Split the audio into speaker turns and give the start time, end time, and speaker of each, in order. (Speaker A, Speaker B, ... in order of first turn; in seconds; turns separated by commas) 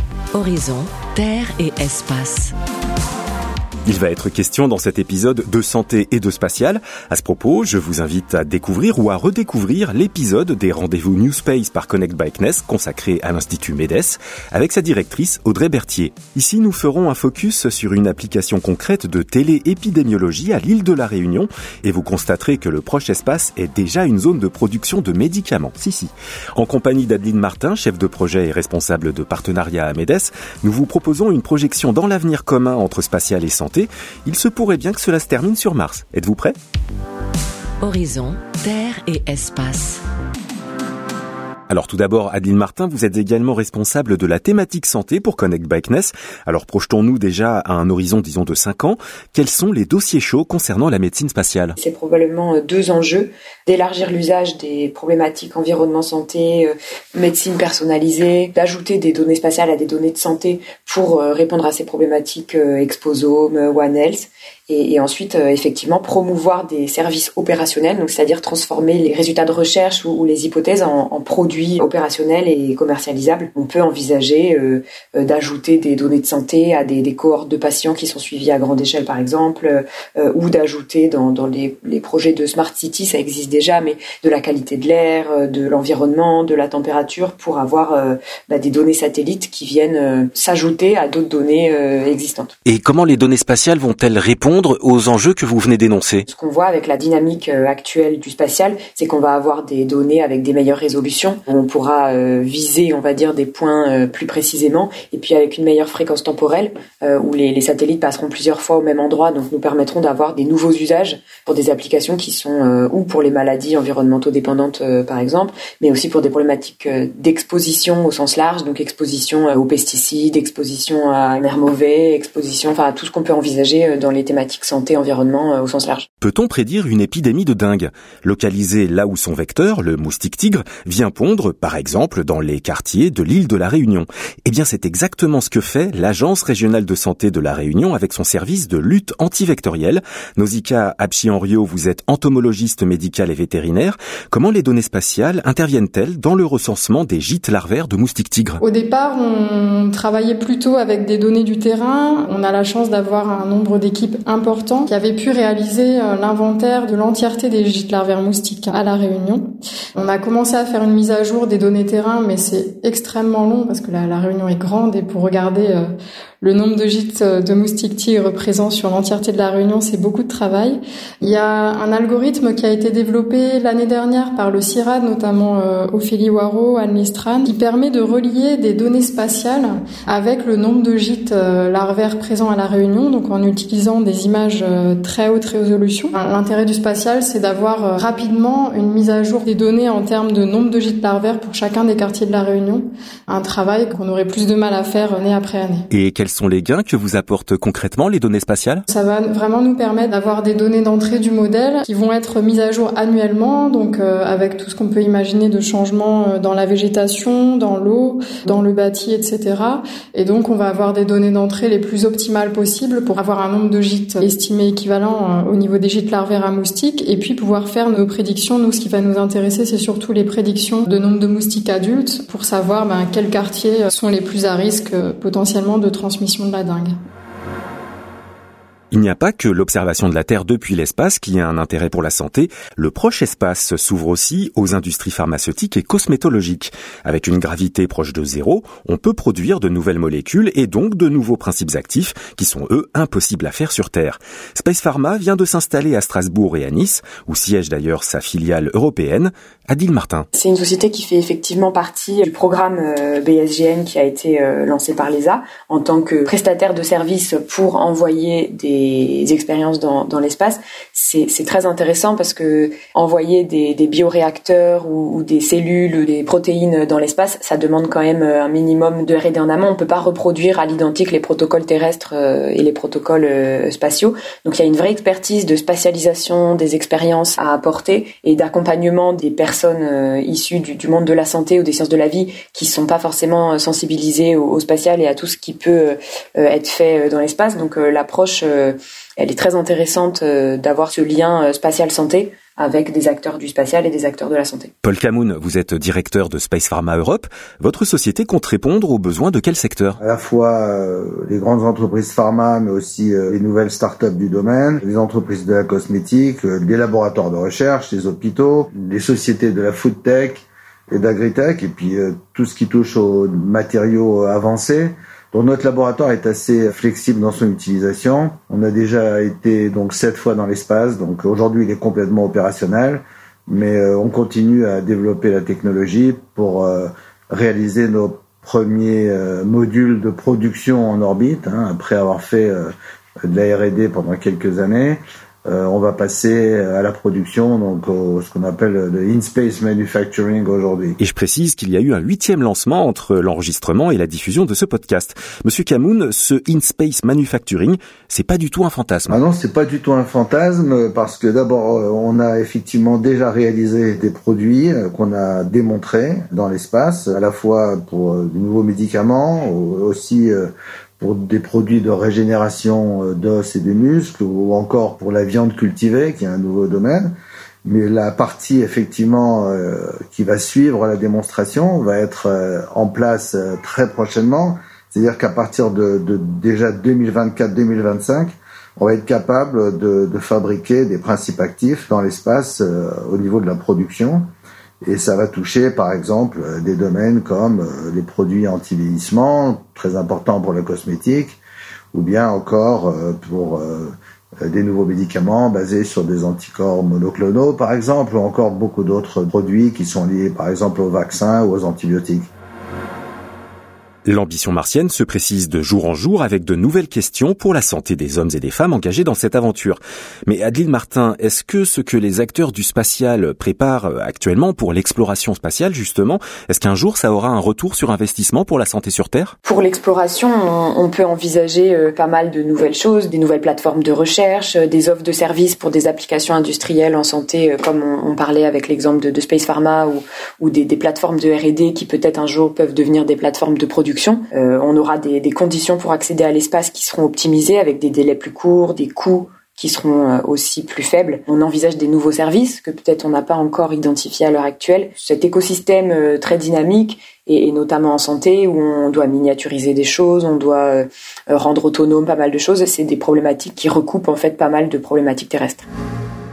Speaker A: 0.3-2.5, Speaker B: 3.8-36.5, Speaker A: 37.8-40.0, Speaker B: 41.7-51.7, Speaker C: 51.8-92.5, Speaker B: 92.7-96.2, Speaker C: 96.3-126.1, Speaker B: 126.2-148.6, Speaker D: 148.6-165.9, Speaker D: 166.4-195.9, Speaker B: 195.9-198.8, Speaker D: 198.9-226.9, Speaker B: 228.9-250.3, Speaker C: 250.3-294.7, Speaker B: 294.8-300.0, Speaker E: 300.0-332.7, Speaker E: 333.2-341.0, Speaker B: 341.0-349.2, Speaker E: 349.1-367.1, Speaker E: 367.6-384.2, Speaker E: 384.8-391.4, Speaker E: 391.9-402.3, Speaker B: 404.1-419.3, Speaker C: 419.4-455.7